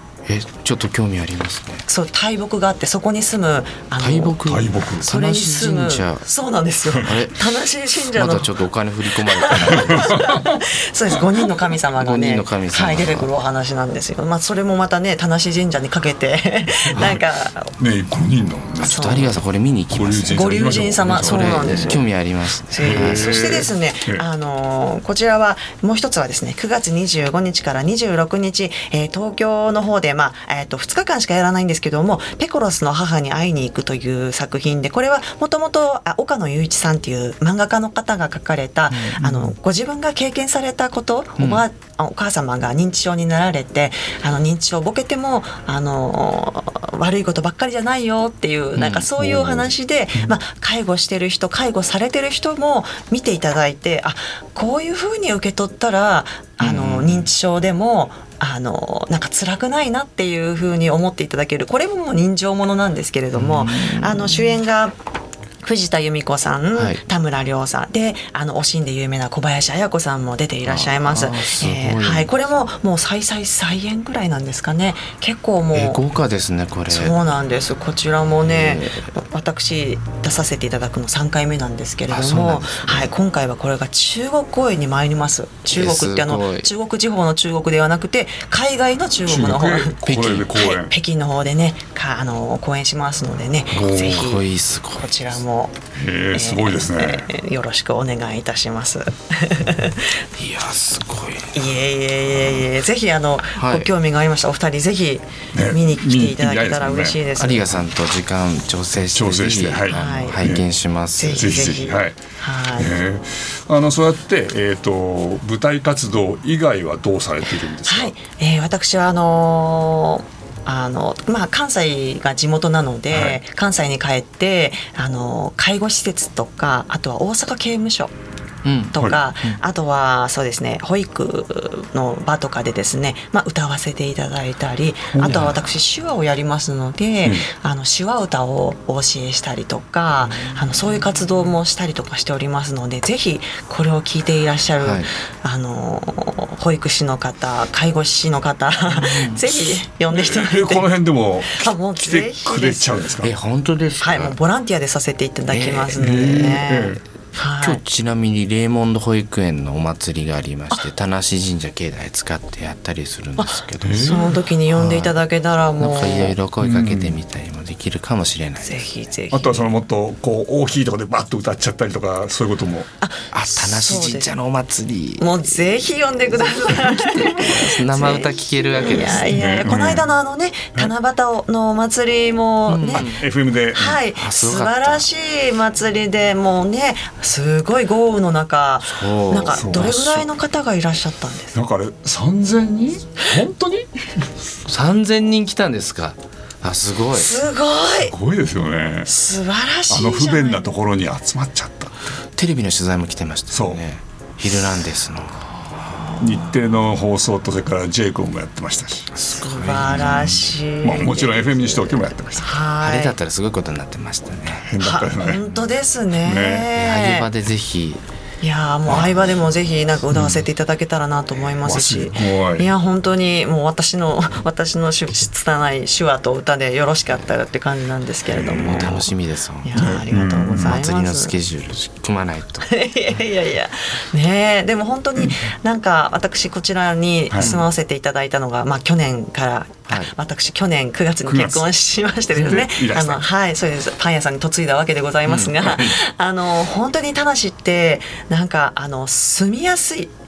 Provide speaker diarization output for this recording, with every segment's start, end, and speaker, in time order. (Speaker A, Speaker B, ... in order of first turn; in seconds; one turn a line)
Speaker A: 0.2-1.9
Speaker B: 1.9-4.4
Speaker A: 4.0-6.2
Speaker C: 4.5-5.1
Speaker B: 5.0-8.6
Speaker A: 6.9-10.4
Speaker B: 9.1-17.7
Speaker C: 9.7-10.4
Speaker A: 12.0-13.3
Speaker C: 16.9-17.2
Speaker C: 17.8-19.3
Speaker A: 18.8-23.6
Speaker B: 18.8-19.3
Speaker C: 19.9-22.0
Speaker B: 20.3-22.1
Speaker B: 22.7-64.9
Speaker C: 22.8-24.2
Speaker A: 38.9-39.4
Speaker A: 48.8-49.2
Speaker C: 49.3-49.6
Speaker A: 56.6-57.3
Speaker A: 63.3-64.6
Speaker B: 65.6-76.0
Speaker A: 66.8-67.0
Speaker A: 70.6-72.3
Speaker A: 75.7-77.2
Speaker B: 76.9-95.8
Speaker A: 78.4-79.1
Speaker A: 82.1-83.1
Speaker A: 85.7-86.7
Speaker C: 89.3-90.9
Speaker A: 90.0-90.5
Speaker C: 93.7-94.2
Speaker A: 93.8-95.1
Speaker C: 95.9-97.3
Speaker B: 96.3-100.2
Speaker A: 100.4-101.6
Speaker B: 101.5-107.7
Speaker A: 103.6-103.9
Speaker C: 105.5-107.2
Speaker A: 107.4-111.7
Speaker C: 109.1-110.6
Speaker B: 109.9-110.4
Speaker B: 111.1-112.9
Speaker C: 111.4-112.2
Speaker C: 112.8-118.1
Speaker B: 117.8-128.1
Speaker C: 123.1-123.4
Speaker A: 128.6-129.6
Speaker B: 128.9-150.9
Speaker C: 135.1-135.6
Speaker A: 144.8-145.1
Speaker A: 148.9-149.4
Speaker C: 150.1-153.3
Speaker B: 151.5-153.1
Speaker A: 153.2-154.4
Speaker B: 154.0-157.8
Speaker A: 155.5-156.4
Speaker C: 156.0-157.0
Speaker A: 157.6-165.1
Speaker B: 163.4-166.4
Speaker C: 163.8-164.3
Speaker A: 165.8-168.9
Speaker C: 166.6-167.2
Speaker B: 168.6-169.7
Speaker C: 169.3-172.9
Speaker B: 173.0-174.3
Speaker A: 173.3-175.6
Speaker B: 175.2-183.1
Speaker A: 176.6-179.4
Speaker C: 179.3-180.1
Speaker A: 182.7-183.3
Speaker C: 182.9-184.0
Speaker B: 183.7-191.6
Speaker A: 184.1-185.1
Speaker A: 188.8-190.3
Speaker C: 189.5-189.9
Speaker C: 191.6-194.2
Speaker A: 194.6-197.4
Speaker B: 197.1-198.1
Speaker C: 198.1-199.1
Speaker B: 199.1-200.7
Speaker C: 199.9-202.1
Speaker A: 202.4-205.5
Speaker C: 203.5-203.8
Speaker C: 206.2-209.1
Speaker A: 209.2-210.4
Speaker B: 209.2-213.2
Speaker C: 209.8-212.5
Speaker A: 212.8-214.7
Speaker C: 214.6-215.4
Speaker B: 214.8-217.3
Speaker C: 216.2-216.7
Speaker A: 216.8-218.0
Speaker B: 218.4-229.1
Speaker C: 218.9-219.3
Speaker C: 220.1-220.4
Speaker C: 221.6-222.7
Speaker C: 228.4-228.9
Speaker A: 228.4-229.9
Speaker B: 229.6-231.3
Speaker C: 229.8-230.8
Speaker A: 230.5-232.7
Speaker B: 232.6-250.1
Speaker A: 237.4-237.6
Speaker C: 241.3-241.7
Speaker C: 242.3-243.2
Speaker A: 245.3-245.7